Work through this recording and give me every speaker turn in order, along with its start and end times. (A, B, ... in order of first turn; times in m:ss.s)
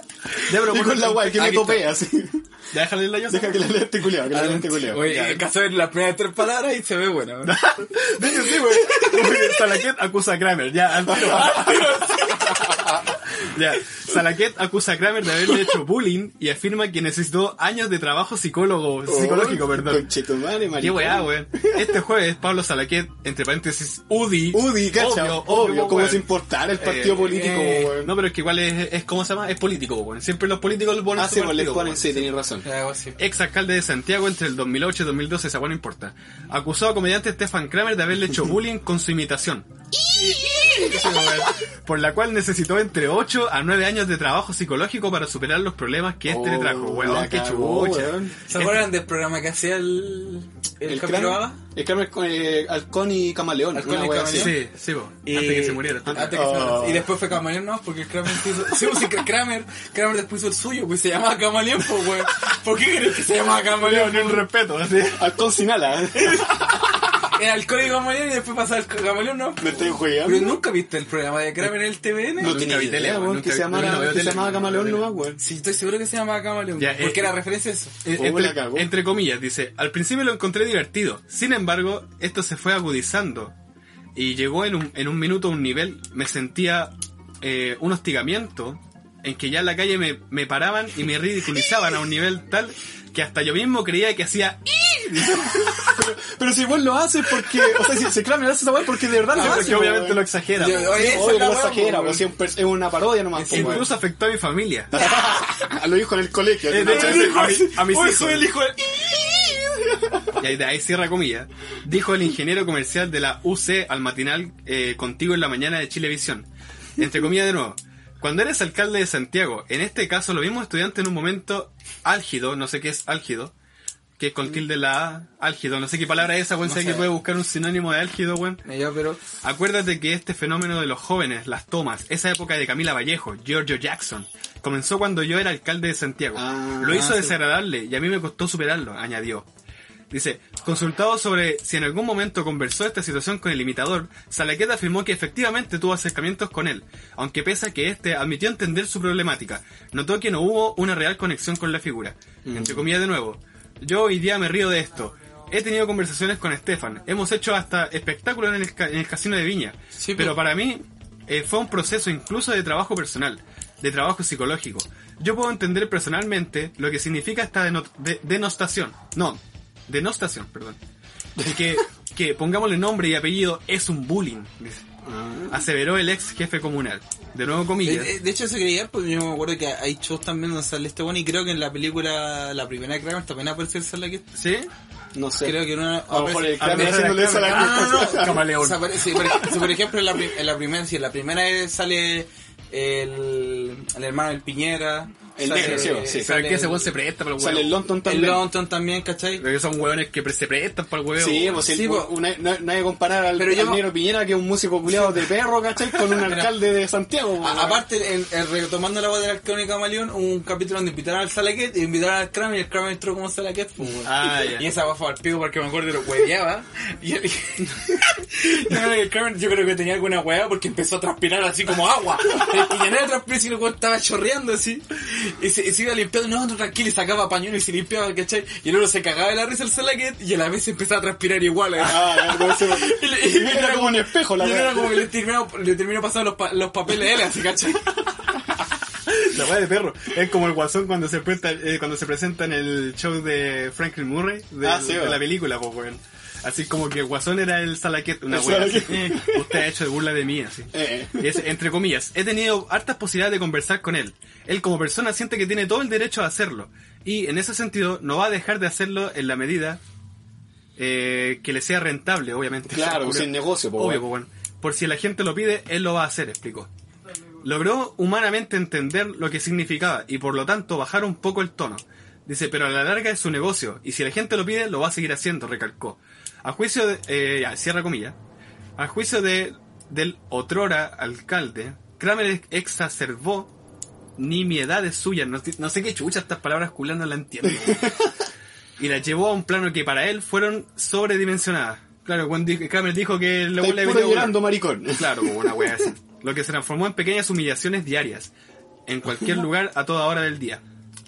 0:00.4-0:01.9 A
0:00.5-0:02.4 B
0:02.7-0:03.7 A
0:03.3-0:05.1 B
0:04.3-0:07.6 C
0:05.0-0:05.4 A
0:07.4-0:20.1 A
0:11.1-0:12.6 C
0:11.2-0:11.7 B
0:19.0-0:21.8 B
0:20.8-0:32.3 A
0:24.5-0:28.1 B
0:27.2-0:27.9 C
0:31.1-0:32.6 B
0:32.6-0:33.2 C
0:33.2-0:48.9 A
0:40.2-0:41.4 B
0:40.3-0:41.1 C
0:46.2-0:48.3 B
0:48.5-0:51.6 C
0:50.8-0:54.5 B
0:53.7-0:54.6 C
0:54.2-0:56.5 A
0:55.2-1:04.5 C
0:56.1-0:57.1 B
1:03.8-1:05.3 A
1:05.0-1:06.5 B
1:06.1-1:12.6 C
1:09.6-1:10.6 B
1:12.4-1:15.4 B
1:12.4-1:15.1 A
1:13.8-1:14.3 C
1:15.4-1:17.9 C
1:16.8-1:17.4 A
1:18.0-1:23.5 A
1:18.1-1:18.9 B
1:24.2-1:35.9 A
1:35.1-1:43.9 B
1:39.3-1:41.3 A
1:39.3-1:39.8 C
1:40.6-1:42.3 C
1:43.3-1:43.8 C
1:43.5-1:44.9 A
1:44.9-1:47.7 B
1:45.0-1:45.4 C
1:46.7-1:48.5 A
1:46.8-1:50.1 C
1:50.4-1:56.5 A
1:57.0-2:03.5 A
2:04.2-2:08.6 A
2:06.6-2:07.1 C
2:08.6-2:09.2 C
2:09.4-2:19.5 A
2:16.3-2:17.1 B
2:16.8-2:17.3 C
2:20.1-2:50.8 A
2:32.4-2:32.9 B
2:40.0-2:40.4 C
2:51.4-2:51.6 B
2:51.4-2:54.9 A
2:55.0-2:55.6 B
2:55.5-2:58.1 A
2:57.8-3:04.3 C
3:04.3-3:04.7 A
3:05.1-3:08.5 B
3:05.4-3:16.9 C
3:06.1-3:09.5 A
3:15.4-3:16.4 B
3:15.6-3:17.9 A
3:17.4-3:18.4 B
3:18.0-3:19.4 C
3:19.4-3:21.6 A
3:21.2-3:27.8 B
3:21.7-3:22.1 C
3:23.3-3:23.9 C
3:26.2-3:26.5 C
3:27.4-3:58.0 C
3:34.0-3:34.7 A
3:51.8-3:55.0 B
3:59.2-4:19.8 A
4:04.6-4:05.2 B
4:08.3-4:09.6 B
4:10.7-4:11.4 B
4:20.8-4:26.7 A
4:22.7-4:24.0 B
4:27.4-4:38.2 A
4:38.8-4:43.5 A
4:44.2-4:48.0 A
4:47.5-4:47.9 B
4:48.8-4:58.3 A
4:53.6-4:55.9 B
4:58.9-5:00.6 A